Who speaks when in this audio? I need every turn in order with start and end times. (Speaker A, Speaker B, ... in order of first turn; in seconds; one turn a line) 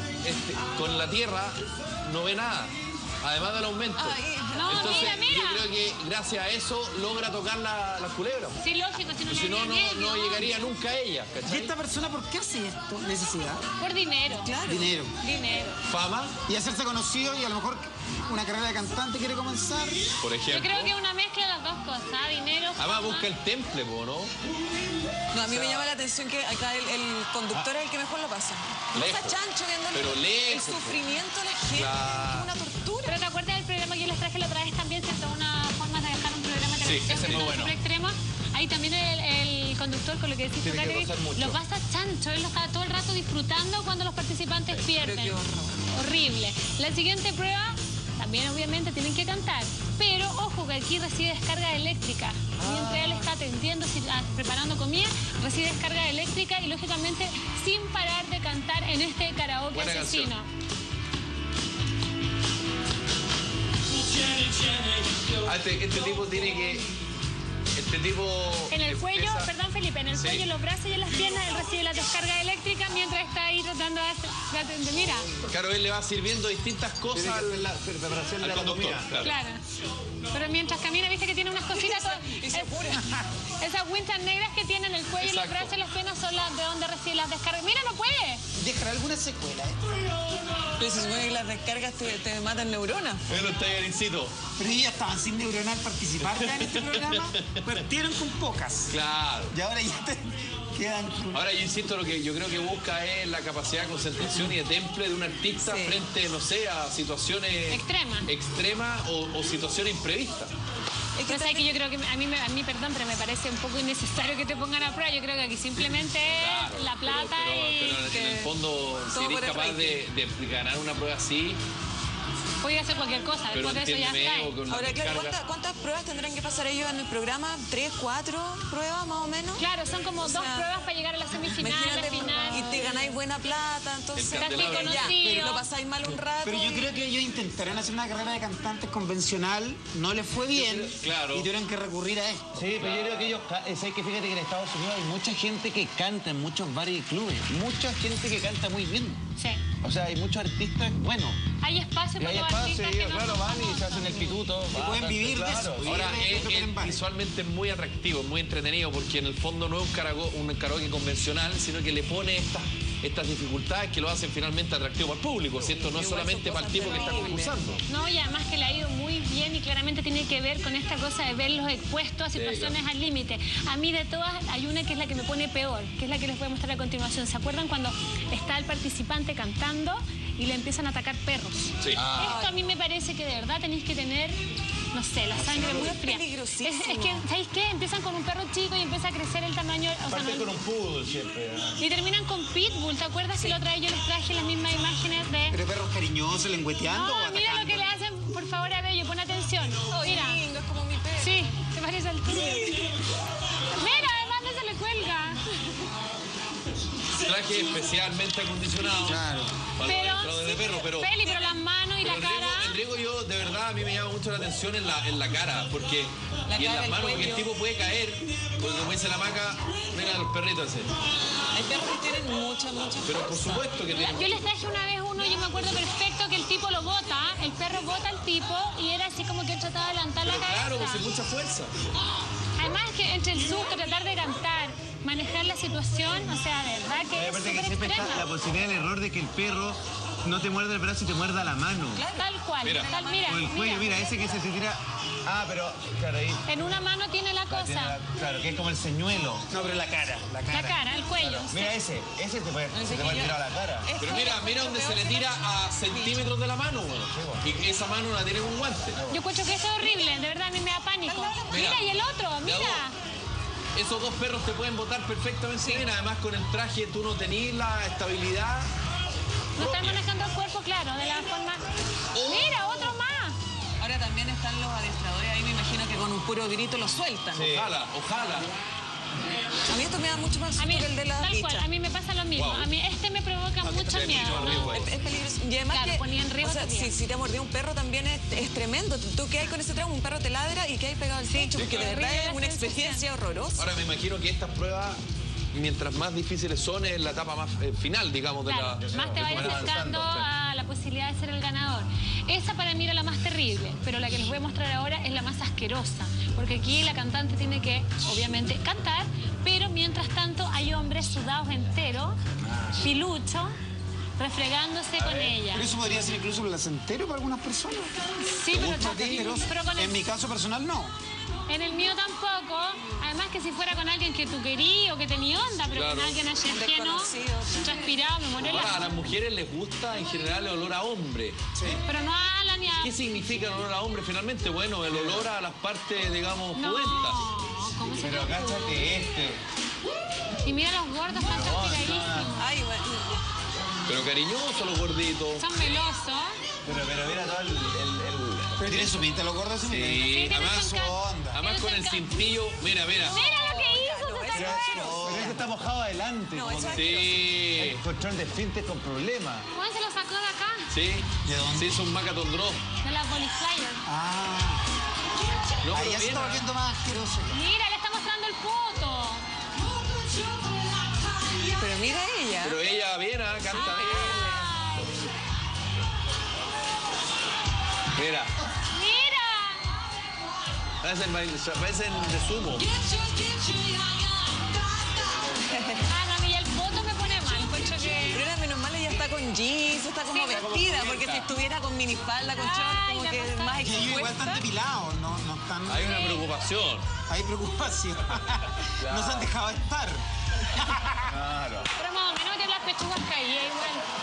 Speaker A: 0.2-8.6
Speaker B: 4.0-5.2
Speaker C: 4.5-5.7
Speaker C: 8.6-10.6
Speaker A: 9.3-11.7
Speaker D: 11.5-13.7
Speaker C: 13.8-14.6
Speaker B: 14.3-15.0
Speaker D: 14.7-15.1
Speaker C: 15.2-15.7
Speaker A: 15.9-16.4
Speaker D: 16.5-20.1
Speaker A: 20.2-20.9
Speaker C: 20.5-23.3
Speaker A: 22.8-24.3
Speaker B: 25.3-33.2
Speaker A: 25.4-25.9
Speaker A: 28.9-31.1
Speaker A: 31.7-32.5
Speaker C: 33.0-45.4
Speaker A: 36.8-37.8
Speaker E: 40.6-41.6
Speaker B: 44.9-45.8
Speaker C: 45.9-60.5
Speaker B: 52.6-53.2
Speaker A: 59.7-60.3
Speaker A: 65.4-66.9
Speaker A: 67.8-69.5
Speaker C: 68.7-75.3
Speaker A: 70.1-70.5
Speaker A: 75.5-77.7
Speaker E: 77.1-79.3
Speaker A: 78.4-79.3
Speaker C: 79.2-79.6
Speaker C: 80.3-82.9
Speaker B: 81.7-83.0
Speaker C: 83.6-88.4
Speaker A: 85.2-85.7
Speaker D: 88.6-90.0
Speaker B: 90.8-93.2
Speaker A: 93.3-94.3
Speaker D: 94.6-99.0
Speaker A: 96.2-97.6
Speaker A: 98.9-99.5
Speaker D: 99.5-101.4
Speaker A: 101.3-110.5
Speaker B: 105.6-106.0
Speaker C: 107.7-108.3
Speaker B: 111.2-111.7
Speaker C: 111.3-118.0
Speaker A: 116.0-121.6
Speaker B: 118.0-118.5
Speaker B: 119.1-120.0
Speaker C: 122.6-124.5
Speaker A: 123.5-125.5
Speaker B: 124.7-129.7
Speaker C: 129.6-133.0
Speaker B: 130.2-130.7
Speaker B: 131.5-136.9
Speaker A: 134.2-135.2
Speaker C: 134.4-135.7
Speaker D: 136.4-142.5
Speaker A: 140.5-141.5
Speaker E: 142.6-149.2
Speaker A: 142.8-143.3
Speaker E: 149.8-151.4
Speaker C: 151.6-154.4
Speaker E: 152.2-156.2
Speaker D: 154.7-157.0
Speaker A: 155.8-167.8
Speaker B: 165.5-167.8
Speaker C: 167.9-184.4
Speaker A: 172.3-172.8
Speaker A: 181.8-182.4
Speaker B: 182.1-182.7
Speaker C: 184.9-190.5
Speaker B: 185.4-187.2
Speaker E: 190.1-191.8
Speaker C: 191.8-195.6
Speaker B: 193.3-193.6
Speaker D: 195.5-197.9
Speaker C: 196.9-200.4
Speaker B: 199.9-201.4
Speaker C: 201.2-202.9
Speaker B: 202.3-202.9
Speaker C: 203.7-205.4
Speaker A: 207.2-211.1
Speaker D: 209.0-209.6
Speaker C: 209.8-212.7
Speaker B: 211.2-211.5
Speaker A: 212.0-220.9
Speaker B: 216.5-217.5
Speaker B: 221.5-223.7
Speaker A: 223.0-224.4
Speaker C: 223.9-231.0
Speaker A: 230.2-231.7
Speaker C: 232.6-238.3
Speaker E: 237.1-242.0
Speaker B: 241.9-244.2
Speaker C: 242.1-244.0
Speaker A: 242.6-242.9
Speaker E: 243.2-246.5
Speaker C: 246.5-248.0
Speaker E: 247.5-249.5
Speaker D: 249.5-250.8
Speaker C: 250.5-251.7
Speaker E: 251.2-253.9
Speaker B: 252.7-256.3
Speaker A: 254.0-259.0
Speaker E: 257.1-257.6
Speaker E: 258.9-259.2
Speaker C: 259.1-262.9
Speaker B: 261.1-261.6
Speaker A: 261.5-261.8
Speaker A: 262.4-262.9
Speaker A: 263.8-268.7
Speaker B: 265.6-265.9
Speaker C: 269.6-271.6
Speaker A: 269.6-270.0
Speaker A: 272.1-272.9
Speaker C: 272.2-273.4
Speaker B: 273.8-277.6
Speaker E: 277.3-277.7
Speaker A: 277.4-278.5
Speaker B: 278.1-278.5
Speaker B: 279.7-281.7
Speaker C: 280.6-284.7
Speaker A: 282.4-282.7
Speaker A: 283.6-284.9
Speaker B: 284.3-293.7
Speaker C: 285.7-286.9
Speaker C: 291.3-293.1
Speaker A: 291.6-292.0
Speaker A: 293.6-295.0
Speaker A: 295.5-300.0
Speaker C: 298.4-312.2
Speaker E: 298.8-300.3
Speaker C: 312.8-313.6
Speaker C: 314.2-315.7
Speaker A: 315.0-315.4
Speaker D: 315.5-317.9
Speaker C: 318.2-320.0
Speaker A: 318.5-319.3
Speaker D: 318.6-320.9
Speaker C: 321.5-328.9
Speaker A: 325.7-326.2
Speaker B: 326.4-327.9
Speaker A: 328.4-331.4
Speaker D: 331.6-331.8
Speaker C: 331.9-332.9
Speaker A: 332.8-337.3
Speaker E: 334.9-335.3
Speaker C: 336.6-338.8
Speaker E: 338.0-339.4
Speaker C: 340.4-342.5
Speaker E: 341.1-342.3
Speaker B: 342.4-343.2
Speaker A: 343.9-345.5
Speaker C: 345.4-346.4
Speaker E: 346.6-349.1
Speaker D: 348.6-351.4
Speaker A: 349.6-350.8
Speaker C: 350.1-352.1
Speaker A: 351.3-353.2
Speaker B: 353.0-355.2
Speaker C: 353.0-355.0
Speaker E: 354.4-356.9
Speaker D: 354.4-355.5
Speaker B: 356.3-357.2
Speaker A: 356.7-357.8
Speaker E: 357.6-359.5
Speaker C: 359.5-360.7
Speaker A: 360.7-362.6
Speaker D: 361.2-361.8
Speaker C: 362.8-363.8
Speaker D: 363.9-364.6
Speaker A: 365.6-366.5
Speaker D: 365.7-367.3
Speaker C: 367.3-369.2
Speaker B: 371.5-372.6
Speaker A: 372.4-374.3
Speaker B: 373.5-374.5
Speaker C: 373.5-374.9
Speaker A: 377.9-378.3
Speaker C: 378.7-379.6
Speaker A: 380.8-382.7
Speaker B: 382.8-384.1
Speaker B: 385.4-385.9
Speaker C: 385.9-388.3
Speaker B: 387.4-394.4
Speaker C: 390.1-390.5
Speaker E: 390.3-391.2
Speaker A: 390.6-391.3
Speaker C: 392.3-394.4
Speaker D: 393.6-396.2
Speaker A: 395.7-396.9
Speaker D: 397.1-401.1
Speaker A: 398.8-399.3
Speaker E: 401.1-401.7
Speaker C: 401.8-403.9